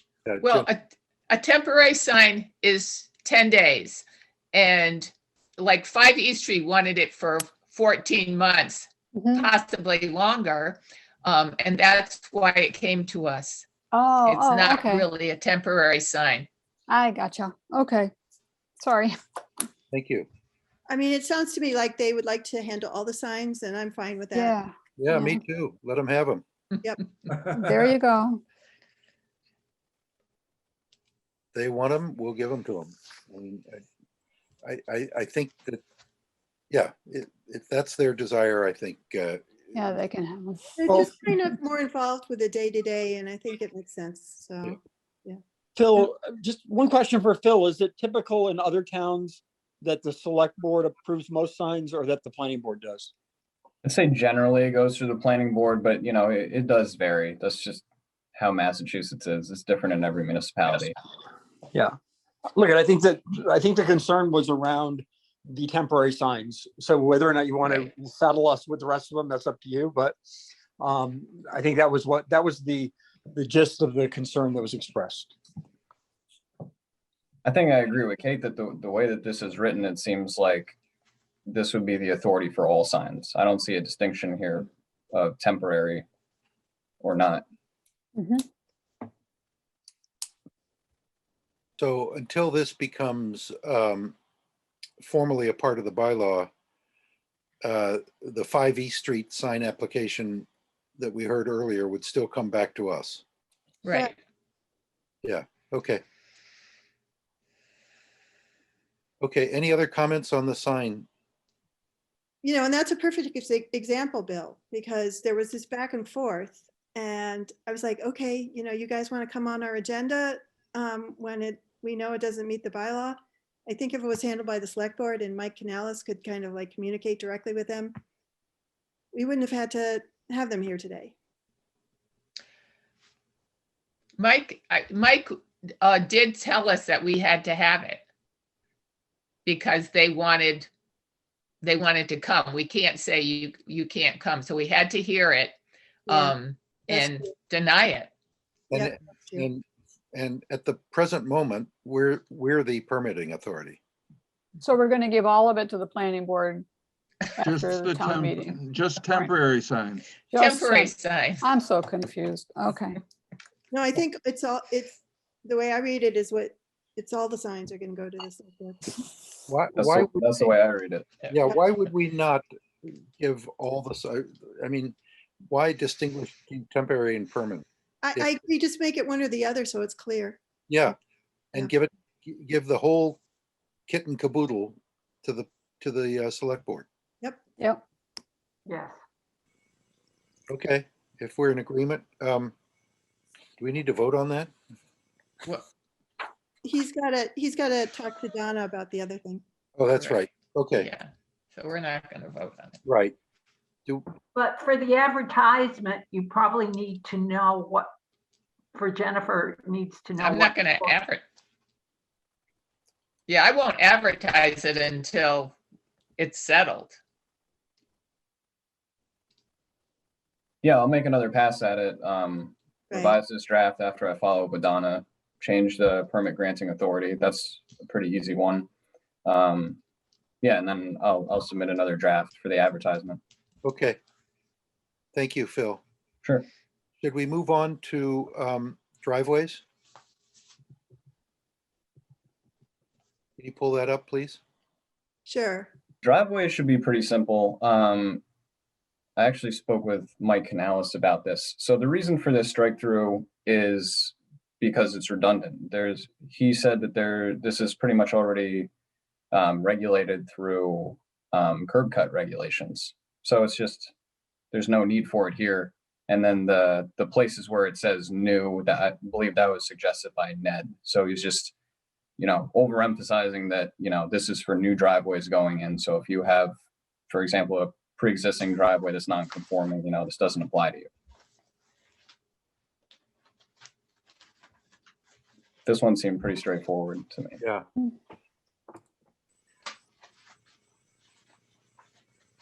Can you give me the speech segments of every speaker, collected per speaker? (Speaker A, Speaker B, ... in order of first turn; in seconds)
Speaker A: 0.2-0.7, 19.9-20.3, 25.0-26.4, 31.5-33.8, 34.6-35.8, 36.7-39.7, 91.8-94.1, 95.0-96.5, 97.6-100.5, 101.0-103.2, 105.2-106.0, 109.2-111.1, 148.7-153.8, 169.5-170.2, 171.3-174.9, 175.5-177.6, 180.7-180.9, 181.5-183.2, 183.9-186.8, 190.5-192.5, 193.6-194.5, 199.8-200.9, 202.8-203.2, 233.6-234.0, 235.1-235.8, 237.0-239.6, 243.4-244.4
Speaker B: 0.4-13.7, 14.3-16.5, 103.8-104.1, 134.2-138.0, 139.4-140.7, 141.6-145.6, 146.1-148.1, 160.3-161.4, 199.9-200.2, 200.8-202.8, 210.2-211.2, 213.3-215.6, 216.2-217.0
Speaker C: 9.2-9.5, 13.9-15.0, 16.9-18.1, 18.8-19.1, 24.3-25.4, 27.5-28.4, 39.7-40.8, 88.2-88.4, 154.6-156.6, 157.4-159.3, 160.3-163.0
Speaker D: 20.9-24.5, 26.8-27.6, 40.8-45.4, 112.4-127.9, 129.1-131.1, 146.1-146.4, 146.9-147.3, 148.7-149.5, 163.7-168.9, 178.0-180.4, 196.6-199.4, 222.9-223.2, 245.2-245.7
Speaker E: 40.9-41.1, 45.8-53.1, 62.5-75.3
Speaker F: 53.8-57.8, 58.3-60.9, 77.4-80.8, 81.5-86.0, 87.0-87.4, 169.7-171.2, 220.6-228.7, 229.2-229.8, 230.4-233.2, 246.0-248.2, 249.2-258.7, 259.3-263.9, 264.5-271.5, 272.2-276.5, 277.1-280.9, 285.6-287.4
Speaker G: 157.4-160.1
Speaker H: 188.7-189.0, 204.3-207.9, 208.7-211.0